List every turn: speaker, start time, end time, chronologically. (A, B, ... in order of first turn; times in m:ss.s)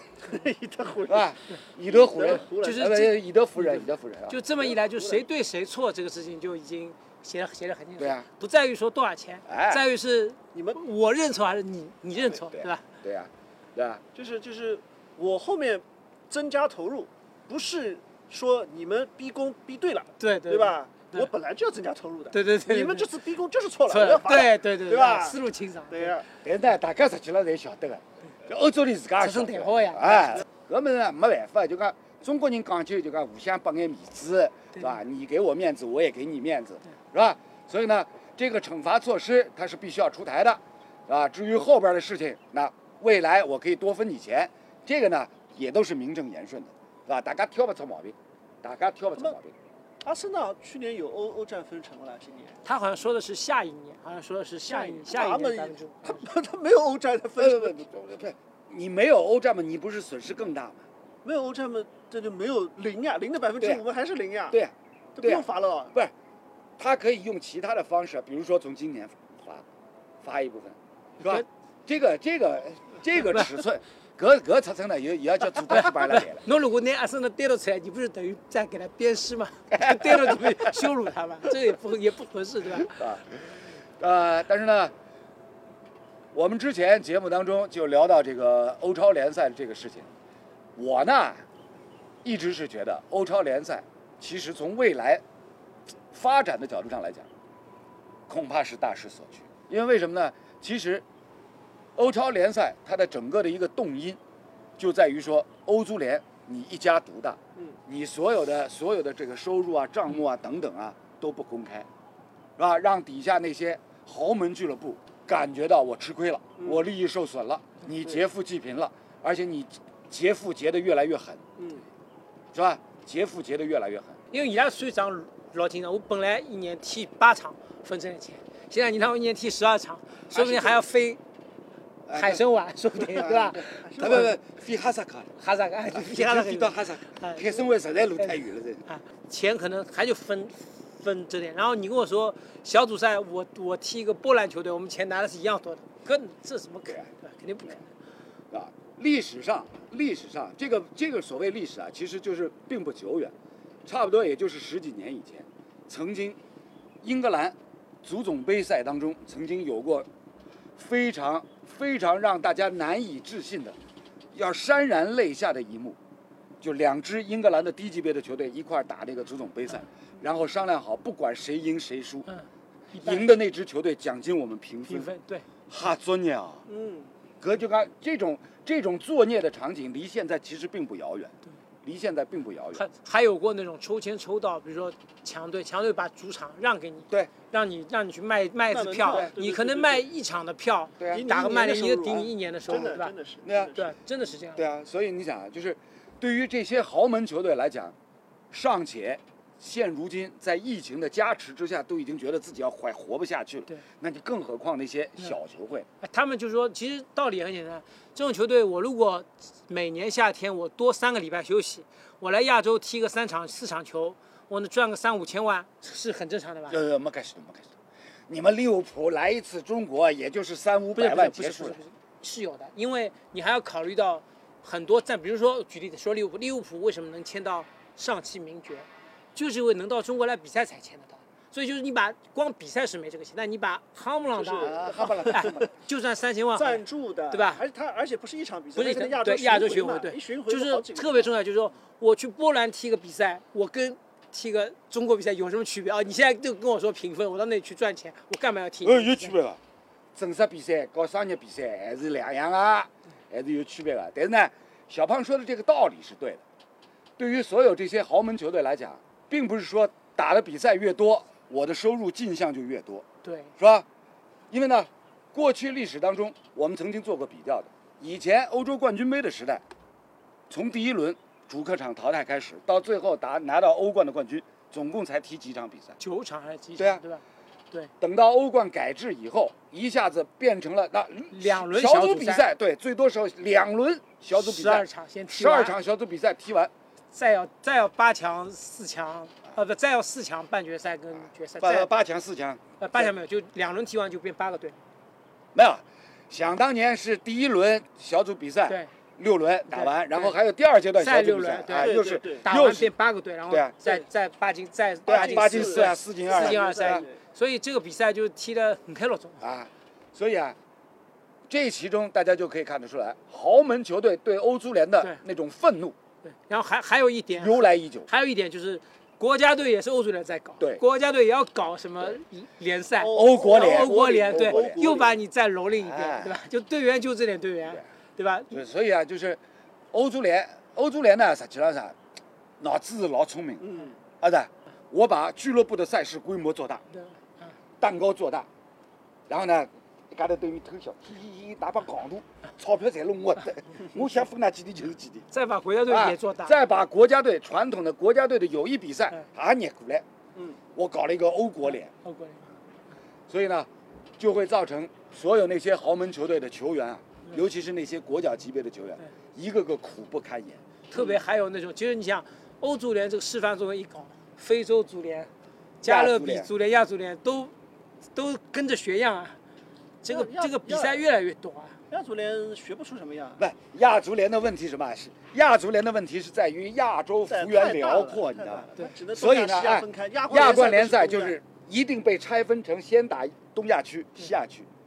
0:00.2-0:02.9 A
0:01.1-0:04.4 B
0:02.4-0:12.8 C
0:04.6-0:05.2 A
0:08.0-0:08.2 B
0:09.5-0:09.8 B
0:10.5-0:10.8 A
0:12.2-0:14.0 B
0:14.1-0:26.3 A
0:20.2-0:21.3 C
0:22.3-0:23.1 C
0:23.9-0:26.1 C
0:26.4-0:49.5 B
0:29.2-0:30.4 C
0:50.0-0:52.6 A
0:52.6-0:56.2 C
0:54.6-0:57.8 A
0:57.4-1:00.8 B
1:01.2-1:04.6 A
1:04.5-1:06.1 B
1:05.2-1:05.9 A
1:06.8-1:09.6 B
1:10.2-1:16.4 B
1:15.7-1:23.0 C
1:19.7-1:20.7 B
1:22.9-1:23.3 B
1:24.0-1:24.9 B
1:26.3-1:30.1 B
1:30.8-1:31.4 B
1:32.2-1:35.2 B
1:36.1-1:37.3 B
1:38.3-1:41.0 B
1:42.0-1:44.2 B
1:44.8-1:51.9 B
1:52.6-2:01.4 B
1:56.6-1:56.8 A
2:01.6-2:01.8 A
2:02.5-2:04.2 B
2:04.3-2:11.2 C
2:10.3-2:10.8 B
2:12.1-2:12.4 B
2:12.1-2:14.3 C
2:13.1-2:15.3 B
2:13.2-2:14.3 A
2:15.4-2:17.6 C
2:15.9-2:18.8 B
2:18.2-2:27.9 C
2:28.5-2:33.3 B
2:33.8-2:36.4 B
2:37.0-2:40.1 B
2:40.8-2:43.8 B
2:44.3-2:46.0 B
2:46.6-2:52.3 B
2:52.3-2:53.3 C
2:53.0-2:55.1 B
2:54.9-2:55.4 C
2:55.7-2:56.6 B
2:56.7-2:57.1 A
2:57.4-3:02.8 B
3:02.8-3:13.1 C
3:08.7-3:10.1 A
3:09.1-3:09.3 B
3:11.0-3:11.3 B
3:11.1-3:14.0 A
3:13.4-3:13.7 B
3:13.7-3:14.6 C
3:14.5-3:17.9 B
3:18.5-3:25.9 B
3:26.0-3:36.8 C
3:36.7-3:37.7 B
3:38.3-3:41.8 B
3:41.0-3:57.6 C
3:54.3-3:55.5 A
3:54.6-3:55.7 B
3:56.5-4:01.3 A
3:58.8-4:09.3 C
4:08.8-4:09.6 B
4:10.2-4:16.4 B
4:17.2-4:23.0 B
4:23.2-4:23.5 C
4:23.6-4:23.8 B
4:24.5-4:29.6 B
4:30.5-4:36.0 B
4:36.0-4:37.9 C
4:36.8-4:37.0 B
4:38.0-4:46.7 B
4:41.3-4:42.5 C
4:44.3-4:45.8 C
4:47.1-4:51.9 C
4:51.6-4:53.0 B
4:52.8-4:54.8 C
4:55.5-5:02.9 B
4:59.7-5:00.3 C
5:01.0-5:09.4 C
5:01.7-5:02.5 A
5:05.0-5:07.0 B
5:05.1-5:07.2 A
5:09.4-5:10.6 B
5:11.5-5:16.0 B
5:16.2-5:28.5 C
5:17.4-5:18.1 B
5:23.0-5:25.2 A
5:23.1-5:24.8 B
5:25.8-5:26.3 B
5:28.5-5:29.4 B
5:29.9-5:32.0 B
5:32.6-5:36.8 B
5:33.6-5:34.0 A
5:36.9-5:37.6 C
5:37.8-5:38.5 B
5:39.3-5:45.3 B
5:45.3-5:46.5 C
5:45.9-5:50.0 B
5:50.7-5:51.9 B
5:52.0-5:52.4 C
5:53.3-6:00.6 B
6:00.9-6:05.3 C
6:05.8-6:07.5 C
6:05.8-6:06.5 B
6:08.1-6:09.4 C
6:10.0-6:11.8 C
6:10.0-6:11.0 A
6:11.9-6:13.4 A
6:13.4-6:24.7 B
6:17.3-6:21.4 A